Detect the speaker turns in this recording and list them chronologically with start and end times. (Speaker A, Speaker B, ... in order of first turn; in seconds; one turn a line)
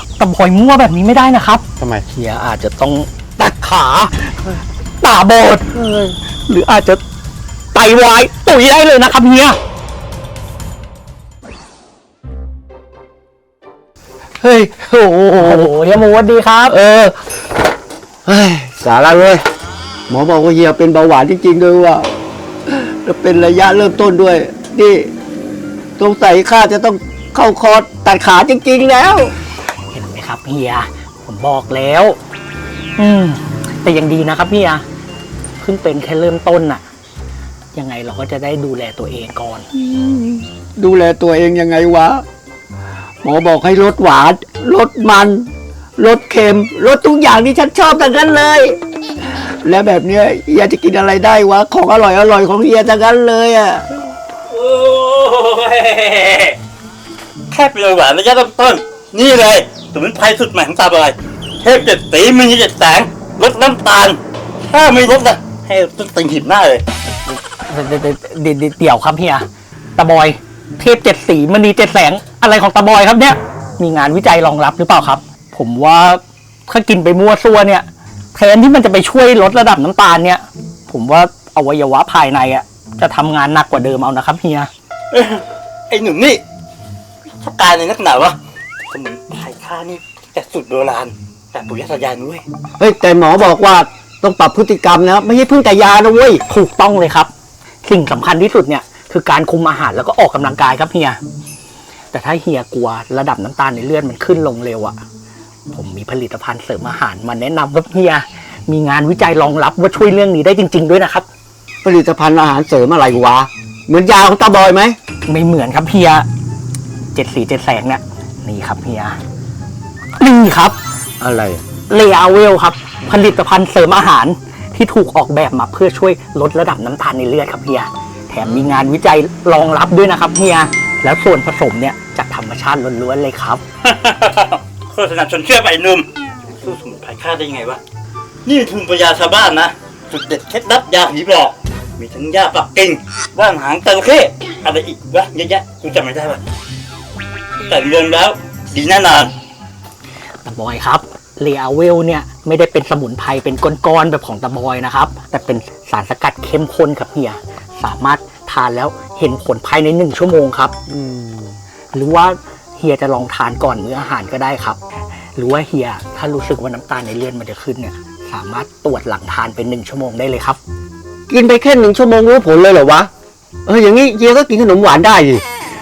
Speaker A: 0.2-7.0
Speaker A: 7.7-9.6
Speaker B: 14.4-15.7
Speaker A: 15.4-16.8
Speaker B: 16.7-17.1
Speaker B: 18.3-19.4
Speaker B: 20.1-22.1
Speaker B: 22.7-25.1
Speaker B: 26.0-29.3
Speaker A: 29.9-32.2
Speaker A: 33.0-34.8
Speaker A: 35.6-36.8
Speaker A: 37.8-39.7
Speaker B: 39.7-42.2
Speaker B: 43.2-48.8
Speaker B: 49.6-53.9
Speaker C: 54.5-56.6
Speaker C: 57.5-66.8
Speaker A: 67.5-84.7
Speaker C: 85.1-86.4
Speaker C: 87.4-88.4
Speaker C: 88.9-92.4
Speaker B: 92.8-96.4
Speaker A: 96.5-97.3
Speaker A: 97.8-101.2
Speaker A: 102.1-105.0
Speaker A: 105.7-111.3
Speaker B: 111.8-115.0
Speaker A: 115.3-116.3
Speaker A: 117.1-119.2
Speaker A: 120.2-120.8
Speaker B: 121.2-121.6
Speaker A: 121.9-133.6
Speaker C: 133.8-137.8
Speaker C: 138.4-146.4
Speaker C: 147.6-149.3
Speaker A: 150.4-160.8
Speaker B: 160.9-161.6
Speaker A: 161.9-164.8
Speaker A: 165.3-170.6
Speaker B: 171.3-173.1
Speaker B: 173.7-175.4